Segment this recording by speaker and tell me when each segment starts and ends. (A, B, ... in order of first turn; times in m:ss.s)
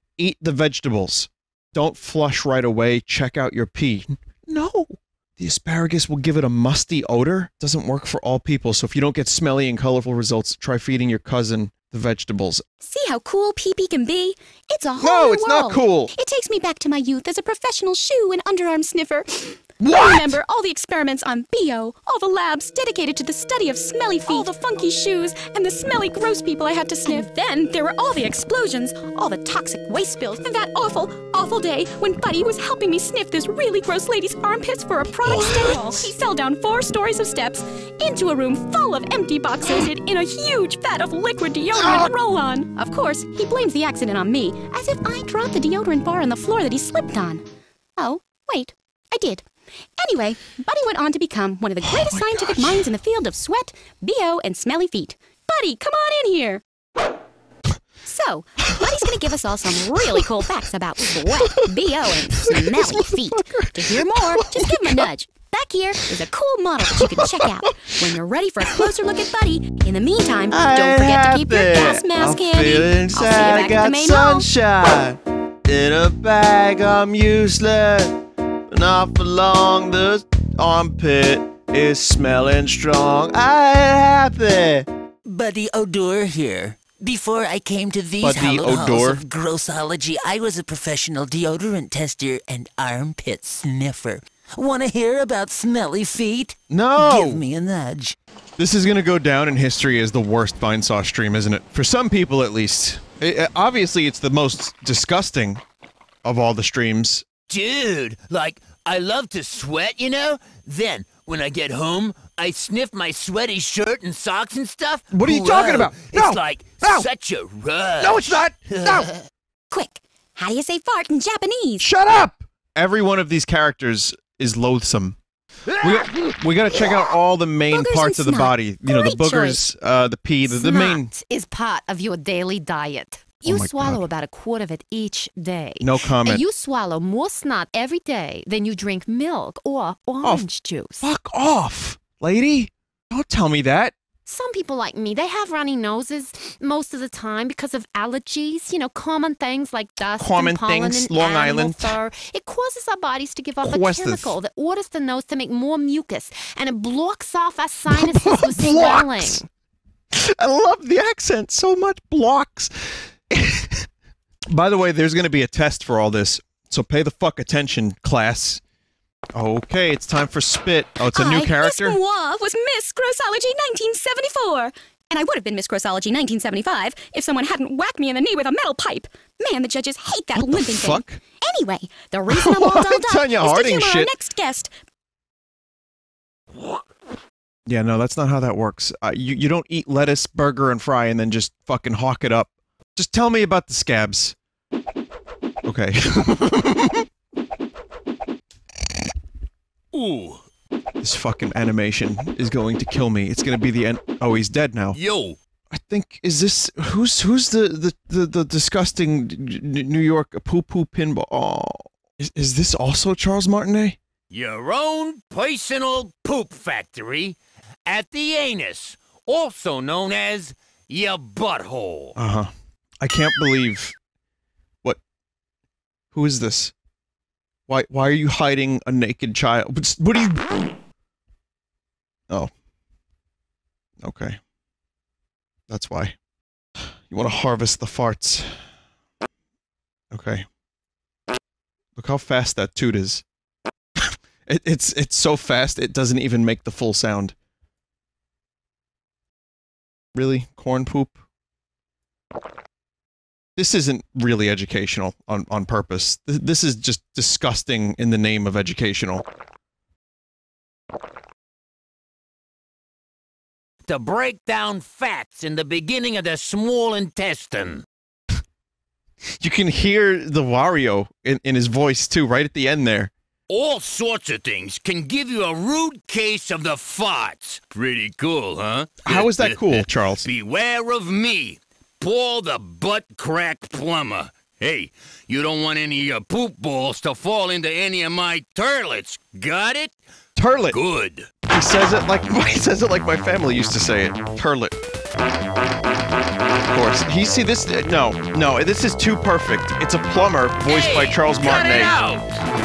0:00.2-0:12.6 A
0:12.8-0:47.4 B
0:15.0-0:16.1 A
0:19.8-0:20.4 A
0:35.2-0:36.1 A
0:41.8-0:42.1 A
0:48.0-0:49.4 B
0:50.0-0:56.6 B
0:51.8-0:52.9 A
0:58.0-1:14.5 B
1:01.4-1:01.7 A
1:02.4-1:05.0 A
1:06.9-1:07.5 A
1:10.5-1:24.9 A
1:25.2-1:38.2 C
1:28.2-1:29.2 A
1:36.7-1:37.4 A
1:38.6-1:45.6 A
1:46.2-1:47.2 A
1:47.5-1:58.9 D
1:55.1-1:57.1 A
1:58.0-1:59.1 A
1:59.7-2:01.9 B
2:01.8-2:05.2 A
2:05.8-2:11.1 A
2:07.7-2:09.6 B
2:10.4-2:21.0 E
2:13.4-2:14.0 A
2:15.8-2:16.4 A
2:21.0-2:23.9 A
2:24.2-2:39.4 E
2:30.2-2:32.0 A
2:33.6-2:34.4 A
2:37.9-2:39.4 A
2:40.1-2:43.9 A
2:44.5-2:48.6 A
2:49.3-2:52.0 A
2:51.1-3:04.7 B
3:00.4-3:01.2 A
3:02.3-3:04.1 A
3:07.7-3:14.4 A
3:15.6-3:17.0 A
3:19.9-3:20.4 D
3:21.0-3:25.0 A
3:24.9-3:25.4 D
3:25.7-3:34.0 A
3:34.3-3:42.2 D
3:42.2-3:42.5 A
3:43.0-3:44.0 A
3:46.1-3:46.7 A
3:47.7-3:50.5 A
3:54.0-3:54.4 A
3:55.7-3:56.2 A
3:56.8-3:58.6 A
4:00.1-4:00.4 A
4:02.0-4:03.2 A
4:04.0-4:07.3 A
4:10.1-4:11.2 A
4:13.6-4:19.2 A
4:23.9-4:27.8 D
4:29.4-4:33.1 A
4:33.5-4:49.9 D
4:39.0-4:40.2 A
4:50.4-4:50.8 A
4:50.7-4:51.3 D
4:51.5-4:54.7 A
4:56.7-5:02.0 A
5:00.6-5:02.4 D